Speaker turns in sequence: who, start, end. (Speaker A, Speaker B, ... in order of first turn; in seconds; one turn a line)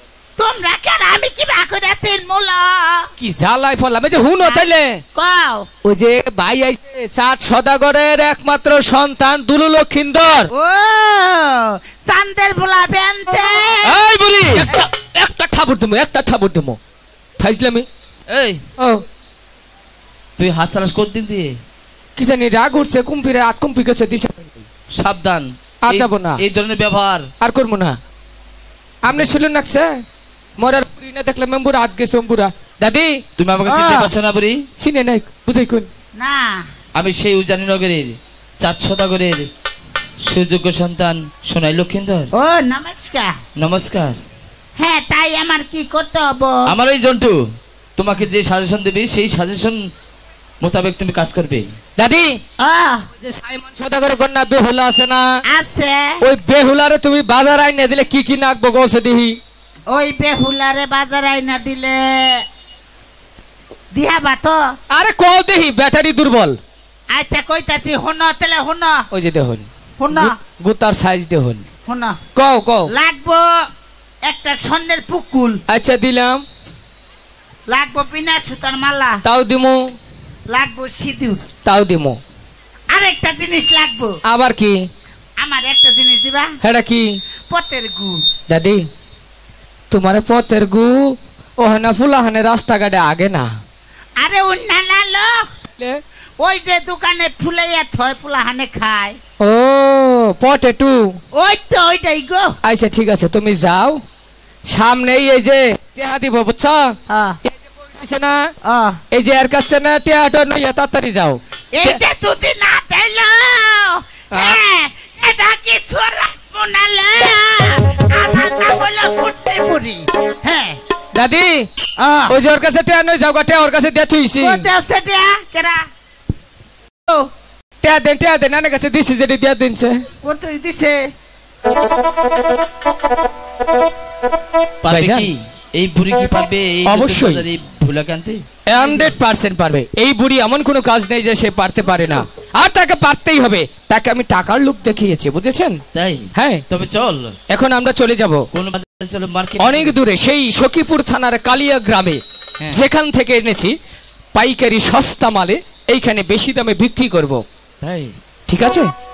Speaker A: 0.4-3.1
Speaker B: 3.2-5.0
Speaker A: 4.4-5.7
Speaker B: 5.8-10.5
Speaker A: 10.6-14.0
Speaker B: 13.8-16.8
Speaker B: 17.4-17.9
Speaker C: 18.3-18.6
Speaker C: 20.4-21.5
Speaker B: 22.2-24.6
Speaker C: 25.0-27.2
Speaker B: 25.8-26.4
Speaker B: 27.4-28.0
Speaker B: 29.0-30.0
Speaker B: 30.6-33.2
Speaker C: 33.4-34.6
Speaker A: 33.7-34.1
Speaker B: 34.8-35.9
Speaker A: 36.2-36.6
Speaker C: 37.0-39.4
Speaker C: 40.3-42.3
Speaker A: 42.3-43.3
Speaker C: 43.6-44.2
Speaker A: 44.8-46.6
Speaker C: 46.7-47.4
Speaker C: 48.0-49.8
Speaker C: 50.6-51.7
Speaker B: 52.0-52.4
Speaker A: 52.6-53.0
Speaker B: 53.2-55.4
Speaker A: 55.5-56.0
Speaker B: 56.2-59.4
Speaker A: 59.9-62.5
Speaker A: 63.9-64.6
Speaker B: 64.9-66.6
Speaker A: 67.1-69.0
Speaker B: 69.1-71.7
Speaker A: 70.0-70.3
Speaker A: 71.9-72.2
Speaker B: 72.3-72.9
Speaker A: 72.9-73.5
Speaker A: 74.2-75.6
Speaker B: 75.7-76.4
Speaker A: 77.7-79.2
Speaker B: 79.2-80.0
Speaker A: 80.5-81.4
Speaker B: 81.7-82.2
Speaker A: 82.9-84.2
Speaker B: 84.3-84.8
Speaker A: 85.4-86.5
Speaker B: 86.6-87.2
Speaker A: 87.5-88.2
Speaker B: 88.5-88.9
Speaker B: 89.9-93.5
Speaker A: 94.2-95.4
Speaker A: 96.4-99.2
Speaker B: 99.4-101.2
Speaker A: 101.3-102.5
Speaker B: 102.6-104.0
Speaker B: 104.7-108.5
Speaker A: 107.1-107.4
Speaker A: 108.7-109.0
Speaker B: 109.1-112.0
Speaker A: 111.8-120.8
Speaker B: 114.3-114.6
Speaker B: 121.1-121.7
Speaker A: 122.0-122.3
Speaker B: 122.3-124.7
Speaker A: 124.4-125.8
Speaker B: 127.8-130.0
Speaker A: 130.2-131.0
Speaker C: 134.8-139.1
Speaker B: 134.9-135.3
Speaker B: 136.9-137.4
Speaker B: 138.7-145.8
Speaker C: 145.9-147.3
Speaker B: 146.3-146.7
Speaker B: 147.5-148.4
Speaker C: 148.5-149.9
Speaker B: 149.6-153.8
Speaker B: 154.3-157.4
Speaker C: 157.8-158.1
Speaker B: 158.5-158.9